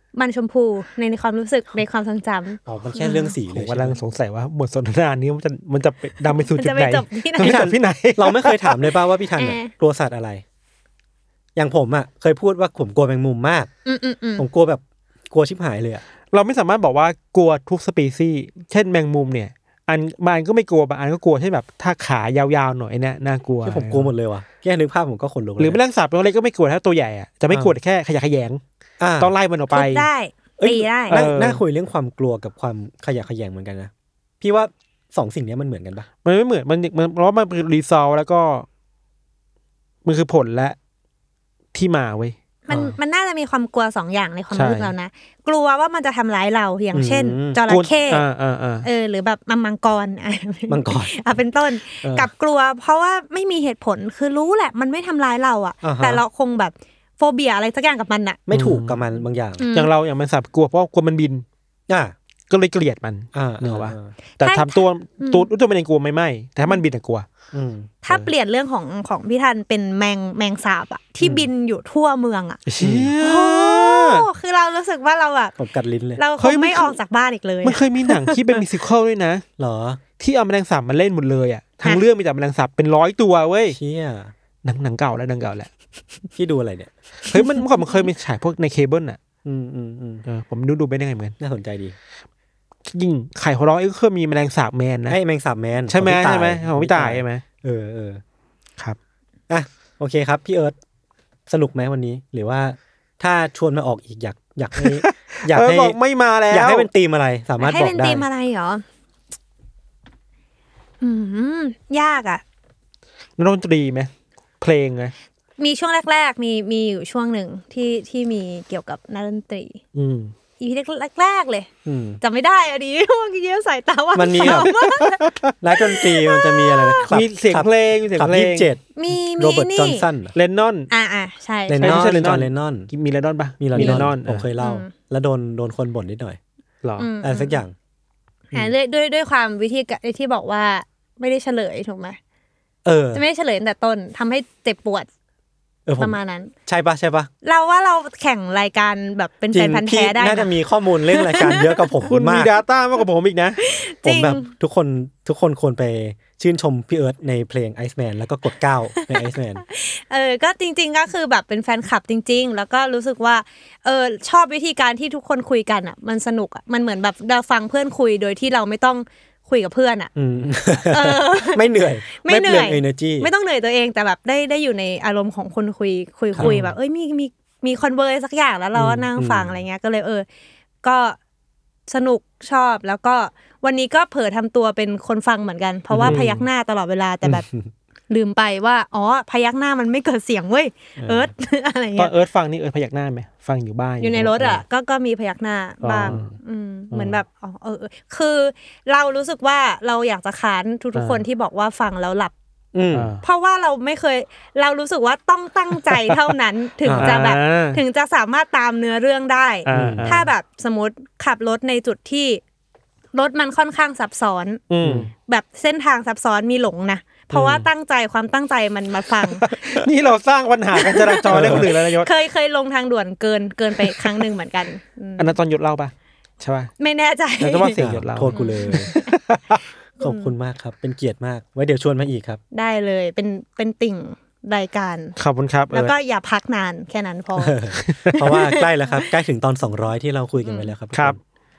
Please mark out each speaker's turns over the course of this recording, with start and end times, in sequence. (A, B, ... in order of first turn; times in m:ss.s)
0:00.1-0:03.3 A
0:02.7-0:04.0 B
0:03.5-0:08.8 C
0:06.2-0:07.6 A
0:07.4-0:10.4 B
0:09.4-0:09.7 A
0:11.6-0:13.7 B
0:13.9-0:14.5 A
0:14.4-0:16.0 B
0:16.3-0:24.1 C
0:23.6-0:25.8 B
0:25.6-0:28.6 C
0:27.5-0:27.7 B
0:29.0-0:29.3 B
0:29.2-0:30.1 C
0:29.7-0:31.2 A
0:30.6-0:36.1 B
0:31.1-0:31.6 C
0:36.2-0:38.7 C
0:40.0-0:40.8 C
0:41.7-0:42.4 C
0:42.7-0:48.3 A
0:42.7-0:43.0 B
0:44.5-0:44.9 C
0:46.9-0:47.6 B
0:47.7-0:48.9 C
0:48.8-0:58.5 A
0:50.7-0:51.1 B
0:52.0-0:52.3 B
0:55.8-0:56.2 B
0:58.5-0:59.6 B
0:58.5-0:59.0 C
0:59.6-0:59.9 A
0:59.7-1:01.4 C
1:01.9-1:02.2 B
1:02.5-1:07.3 C
1:03.3-1:04.1 B
1:04.4-1:05.5 A
1:07.5-1:07.9 B
1:08.0-1:12.6 A
1:11.2-1:11.5 B
1:12.7-1:14.2 C
1:12.8-1:13.1 B
1:13.2-1:15.6 A
1:15.6-1:16.2 B
1:16.2-1:18.6 A
1:16.4-1:17.0 C
1:17.6-1:19.4 C
1:19.6-1:20.0 B
1:20.2-1:23.8 C
1:23.7-1:24.3 B
1:24.6-1:25.7 C
1:26.4-1:26.9 B
1:27.3-1:29.2 C
1:27.3-1:28.1 A
1:29.4-1:30.2 B
1:30.2-1:31.4 C
1:31.4-1:32.0 B
1:32.9-1:35.2 C
1:35.1-1:38.2 B
1:35.9-1:37.4 C
1:39.5-1:40.8 B
1:41.5-1:46.0 B
1:44.8-1:46.9 C
1:46.5-1:48.2 B
1:47.6-1:48.8 A
1:51.0-1:52.4 A
1:53.4-1:55.1 C
1:55.6-1:59.8 A
2:00.0-2:00.3 C
2:00.6-2:01.7 A
2:01.8-2:02.2 B
2:02.2-2:05.4 A
2:04.1-2:04.7 B
2:04.4-2:05.5 C
2:05.6-2:10.3 B
2:05.9-2:07.0 A
2:07.1-2:08.7 C
2:09.0-2:10.1 A
2:10.4-2:10.9 C
2:10.9-2:12.2 A
2:11.7-2:12.9 B
2:11.8-2:14.5 C
2:13.6-2:16.4 B
2:13.8-2:14.1 A
2:14.6-2:14.9 A
2:16.8-2:17.1 C
2:17.0-2:17.6 A
2:17.2-2:17.8 B
2:18.5-2:22.2 A
2:22.8-2:23.2 B
2:23.1-2:25.1 A
2:25.9-2:26.2 B
2:26.0-2:26.5 A
2:26.7-2:27.3 B
2:27.4-2:30.6 A
2:29.5-2:32.5 B
2:31.1-2:31.9 A
2:32.1-2:33.6 C
2:33.6-2:34.5 A
2:34.0-2:39.6 B
2:39.0-2:50.1 A
2:50.2-2:53.3 B
2:50.8-3:00.3 A
2:56.4-2:56.7 C
2:58.8-2:59.6 B
3:00.8-3:01.2 A
3:01.9-3:07.5 A
3:05.9-3:06.3 B
3:06.1-3:06.4 C
3:07.2-3:07.7 B
3:08.1-3:12.1 A
3:11.0-3:11.3 B
3:12.0-3:14.6 C
3:14.0-3:22.3 A
3:15.8-3:16.4 C
3:16.9-3:17.2 C
3:21.0-3:21.2 C
3:22.7-3:23.1 B
3:22.9-3:23.2 C
3:23.2-3:32.4 A
3:25.8-3:26.3 C
3:26.8-3:27.2 B
3:27.0-3:27.8 C
3:29.7-3:30.3 C
3:29.7-3:30.2 B
3:33.1-3:34.6 A
3:34.7-3:35.1 C
3:34.8-3:35.1 B
3:35.3-3:39.8 A
3:37.3-3:37.7 C
3:39.4-3:42.1 C
3:40.8-3:45.4 A
3:41.3-3:41.7 B
3:43.8-3:44.2 C
3:45.2-3:46.7 C
3:46.8-3:47.8 A
3:47.4-3:49.5 C
3:47.8-3:48.9 B
3:48.3-3:49.2 A
3:50.0-3:50.3 A
3:50.0-3:52.4 B
3:52.5-3:55.2 A
3:55.2-3:55.9 C
3:55.7-3:57.6 A
3:57.4-4:01.2 B
3:57.8-3:58.2 C
3:58.2-3:58.7 A
4:00.4-4:00.7 A
4:00.9-4:01.2 C